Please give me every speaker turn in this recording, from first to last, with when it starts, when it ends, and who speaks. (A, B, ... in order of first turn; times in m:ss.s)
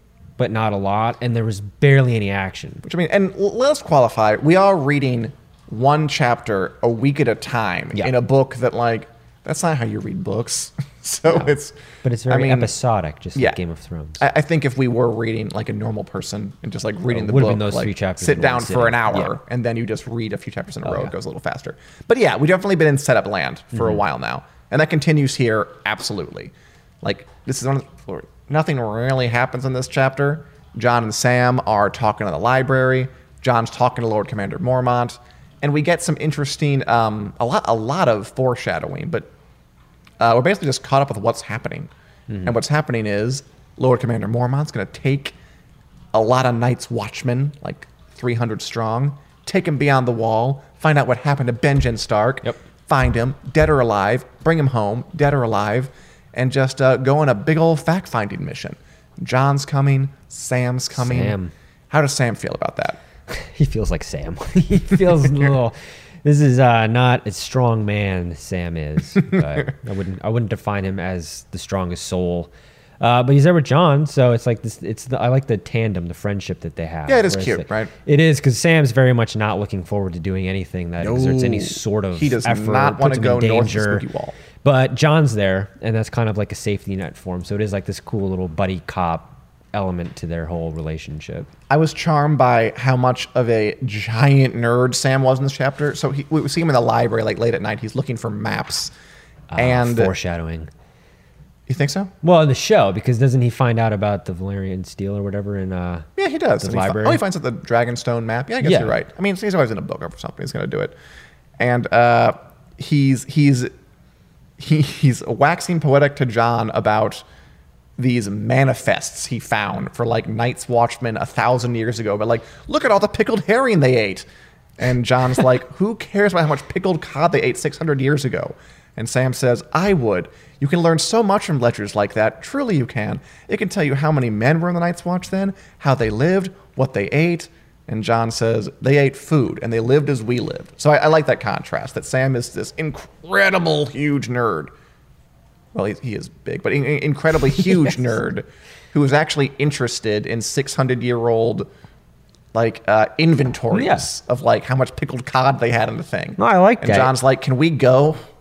0:00.4-0:02.8 A
0:02.8-0:12.7 B
0:11.3-0:14.2 A
0:14.2-0:39.3 B
0:17.1-0:19.3 A
0:20.8-0:21.1 A
0:23.7-0:24.0 A
0:40.2-0:41.9 B
0:42.4-0:45.3 B
0:46.1-1:01.4 B
1:00.9-1:01.5 A
1:01.9-1:03.0 B
1:03.3-1:24.0 A
1:17.1-1:17.9 B
1:21.0-1:24.3 B
1:24.6-1:31.5 A
1:31.7-1:38.9 B
1:39.5-1:40.7 A
1:39.6-1:40.1 B
1:41.7-1:42.1 B
1:42.2-1:46.1 A
1:46.2-1:50.9 B
1:46.6-1:47.2 A
1:48.6-1:48.9 A
1:51.6-1:53.7 B
1:54.6-1:57.2 B
1:58.0-2:04.2 B
2:04.8-2:24.7 B
2:25.7-2:31.7 B
2:32.5-2:38.2 B
2:33.7-2:34.1 A
2:36.4-2:37.1 A